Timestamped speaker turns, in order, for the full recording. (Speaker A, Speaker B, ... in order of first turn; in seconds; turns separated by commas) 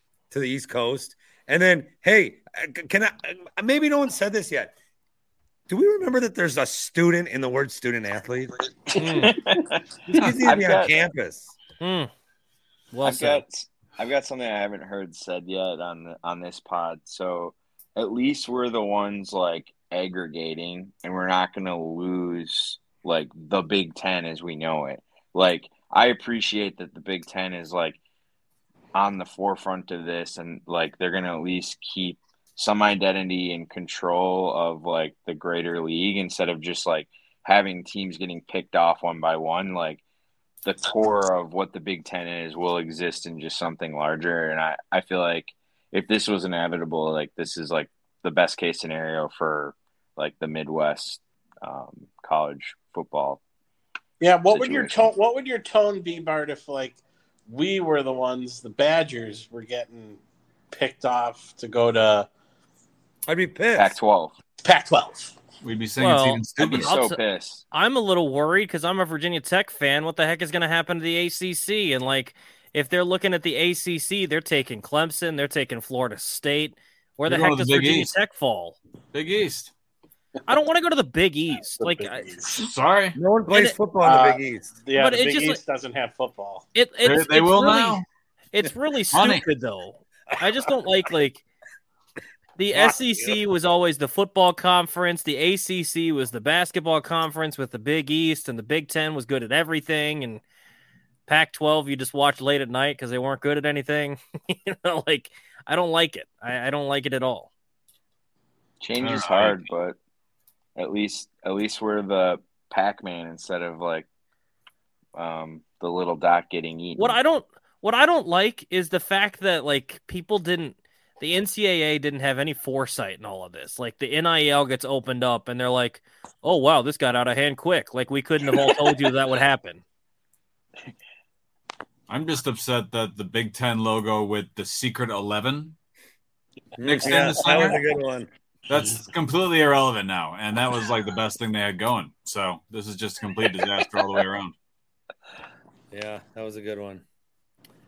Speaker A: 0.3-4.7, Speaker A: 5.7-8.6, Speaker B: 8.9-9.8, Speaker C: 9.0-9.3, Speaker A: 10.1-11.6, Speaker B: 10.4-10.9, Speaker C: 11.8-12.1, Speaker C: 12.9-13.4, Speaker B: 13.0-28.0, Speaker B: 28.9-40.0, Speaker B: 40.6-53.4, Speaker D: 54.2-60.2, Speaker B: 54.5-55.1, Speaker D: 60.7-62.3, Speaker A: 63.3-64.0, Speaker B: 63.8-64.4, Speaker D: 64.6-65.3, Speaker E: 65.6-67.0, Speaker C: 66.0-67.2, Speaker B: 66.5-67.7, Speaker C: 67.7-78.8, Speaker E: 77.3-78.1, Speaker E: 79.1-79.7, Speaker C: 80.5-82.3, Speaker D: 81.8-82.7, Speaker E: 82.5-83.2, Speaker A: 83.2-84.7, Speaker C: 83.5-83.9, Speaker D: 84.0-86.7, Speaker C: 85.0-85.6, Speaker C: 86.7-91.4, Speaker E: 87.0-88.0, Speaker E: 89.1-89.4, Speaker C: 92.6-100.4, Speaker C: 101.3-107.5, Speaker B: 108.8-110.0, Speaker E: 109.0-109.7, Speaker B: 110.8-114.1, Speaker B: 115.2-117.2, Speaker C: 117.0-129.8, Speaker E: 132.1-135.8, Speaker A: 136.8-138.3, Speaker E: 136.8-137.8, Speaker E: 138.7-144.5, Speaker A: 145.9-147.0